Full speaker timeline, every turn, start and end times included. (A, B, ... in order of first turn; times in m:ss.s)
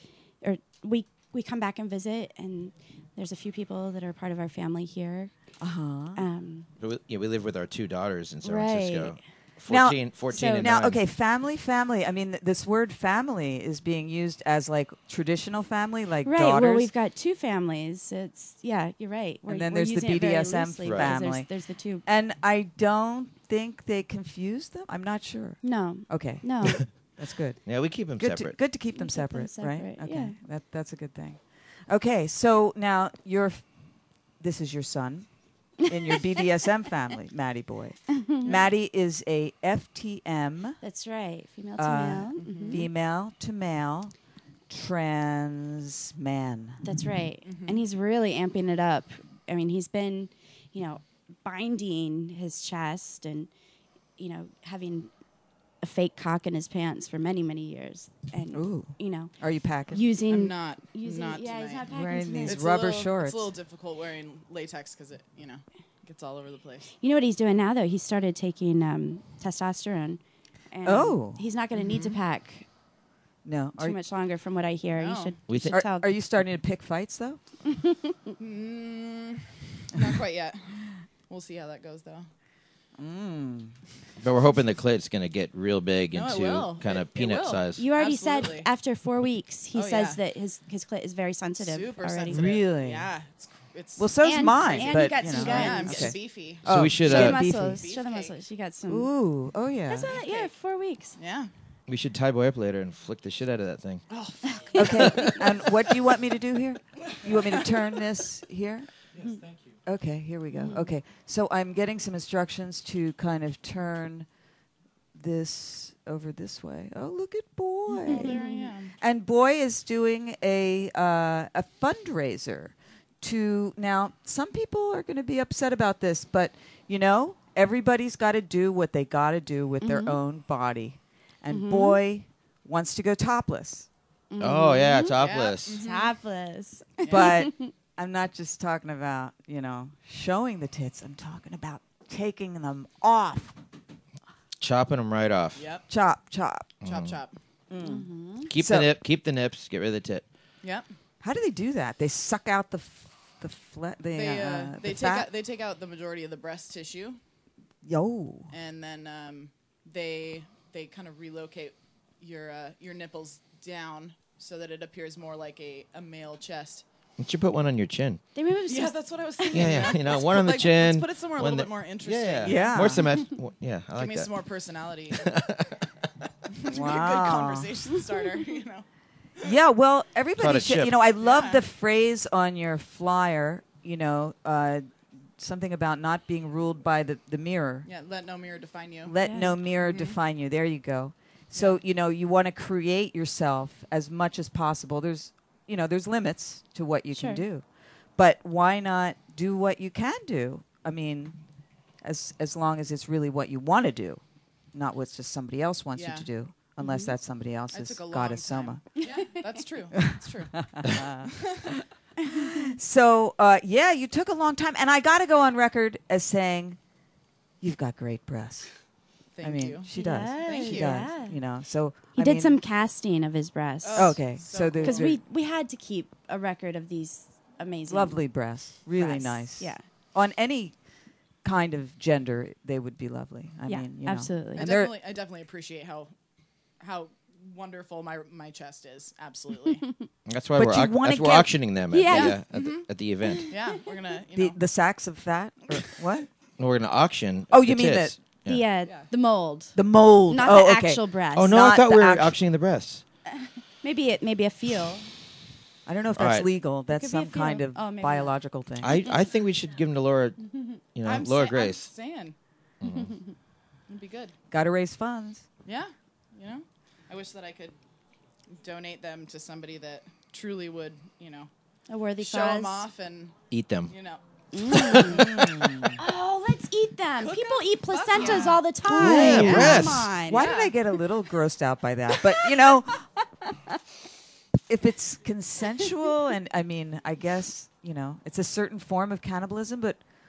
0:00.4-0:05.3 A
0:05.6-0:06.2 B
0:06.2-0:06.7 A
0:06.8-0:11.0 C
0:08.4-0:09.2 A
0:09.7-0:16.9 B
0:10.3-0:10.7 A
0:16.2-0:22.0 A
0:19.5-0:21.5 B
0:20.8-0:21.1 C
0:22.1-0:33.6 B
0:25.6-0:26.8 A
0:27.7-0:28.6 C
0:28.9-0:30.4 A
0:34.4-0:35.3 B
0:35.8-0:40.8 B
0:38.2-0:38.4 A
0:40.8-0:42.9 A
0:41.8-0:44.1 B
0:42.4-0:42.8 D
0:44.7-0:46.8 B
0:46.8-0:53.5 A
0:47.4-0:47.8 D
0:54.2-0:55.1 A
0:55.8-0:59.3 A
0:58.5-1:00.0 B
0:59.9-1:02.6 A
1:00.3-1:01.9 D
1:01.9-1:03.5 B
1:02.4-1:06.9 D
1:07.0-1:10.2 A
1:10.7-1:12.7 A
1:10.8-1:11.4 B
1:13.4-1:14.0 B
1:13.8-1:16.1 A
1:15.0-1:15.4 D
1:15.5-1:15.8 C
1:15.7-1:17.4 B
1:17.7-1:18.1 A
1:18.4-1:20.7 D
1:21.3-1:22.3 D
1:23.0-1:23.8 B
1:24.2-1:27.8 C
1:26.1-1:28.7 D
1:27.8-1:32.5 A
1:29.7-1:30.2 D
1:31.6-1:36.7 D
1:32.3-1:33.1 B
1:34.0-1:37.9 B
1:34.2-1:36.2 A
1:36.6-1:37.4 C
1:37.0-1:39.1 A
1:37.4-1:38.4 D
1:38.9-1:40.2 B
1:39.9-1:41.2 A
1:40.1-1:40.5 D
1:41.2-1:41.5 D
1:41.9-1:44.0 C
1:44.1-1:45.4 D
1:44.5-1:45.4 A
1:44.7-1:48.9 B
1:49.2-1:49.6 D
1:49.9-1:54.3 B
1:50.6-1:50.9 A
1:55.1-1:58.4 B
1:57.9-1:58.9 D
1:58.1-1:58.7 A
1:59.0-2:13.9 B
2:09.8-2:10.2 A
2:11.5-2:12.0 A
2:14.3-2:15.2 A
2:14.4-2:15.8 C
2:15.2-2:16.1 D
2:15.7-2:17.7 A
2:17.0-2:17.5 D
2:17.1-2:23.6 B
2:24.6-2:25.7 C
2:25.6-2:25.8 D
2:25.9-2:26.7 B
2:26.8-2:27.2 C
2:26.8-2:27.4 D
2:27.7-2:29.0 B
2:27.8-2:28.5 A
2:28.5-2:30.2 C
2:31.2-2:35.3 B
2:34.1-2:37.2 D
2:37.8-2:38.5 B
2:38.5-2:46.8 D
2:47.2-2:48.2 C
2:48.4-2:49.9 A
2:48.7-2:53.0 D
2:49.5-2:54.3 C
2:52.4-2:53.1 B
2:54.0-2:55.3 D
2:55.1-2:55.9 C
2:56.5-2:58.8 D
2:56.7-2:57.7 B
2:59.4-3:07.9 B
3:00.4-3:01.0 C
3:01.2-3:01.6 D
3:07.9-3:09.2 D
3:09.0-3:17.6 B
3:09.2-3:09.6 A
3:09.9-3:10.1 D
3:17.1-3:17.4 A
3:18.2-3:21.4 B
3:22.0-3:24.2 B
3:24.7-3:28.8 B
3:26.0-3:26.3 D
3:26.8-3:27.1 A
3:27.7-3:31.8 D
3:30.7-3:36.8 B
3:37.6-3:38.7 B
3:39.4-3:39.9 D
3:39.4-3:42.6 B
3:39.9-3:41.4 A
3:40.4-3:41.1 D
3:42.1-3:44.2 A
3:43.8-3:45.1 D
3:44.0-3:45.2 B
3:44.8-3:48.2 A
3:47.9-3:50.8 B
3:48.9-3:49.8 A
3:51.4-3:55.0 B
3:53.7-3:54.7 A
3:54.6-3:56.1 D
3:56.8-3:59.9 D
4:00.3-4:03.5 C
4:00.6-4:01.5 B
4:01.9-4:02.4 A
4:02.1-4:02.9 D
4:03.5-4:04.6 D
4:04.3-4:06.3 B
4:06.6-4:08.6 C
4:07.5-4:08.2 B
4:08.5-4:09.8 A
4:09.8-4:12.4 B
4:10.3-4:11.6 A
4:11.4-4:13.0 C
4:13.4-4:15.1 A
4:15.9-4:19.0 B
4:16.2-4:16.5 C
4:16.9-4:18.4 A
4:18.8-4:20.4 C
4:21.0-4:21.9 C
4:21.0-4:22.4 D
4:22.8-4:23.2 C
4:23.9-4:24.3 D
4:24.5-4:25.4 B
4:25.7-4:27.8 D
4:28.5-4:31.5 D
4:31.9-4:32.9 A
4:32.2-4:33.3 D
4:33.5-4:33.9 C
4:33.9-4:34.2 D
4:34.5-4:35.3 A
4:34.7-4:35.1 C
4:34.9-4:35.3 D
4:35.0-4:36.0 B
4:35.9-4:40.5 A
4:37.2-4:38.6 D
4:38.8-4:43.0 B
4:38.9-4:40.1 C
4:40.3-4:40.8 D
4:44.7-4:50.0 B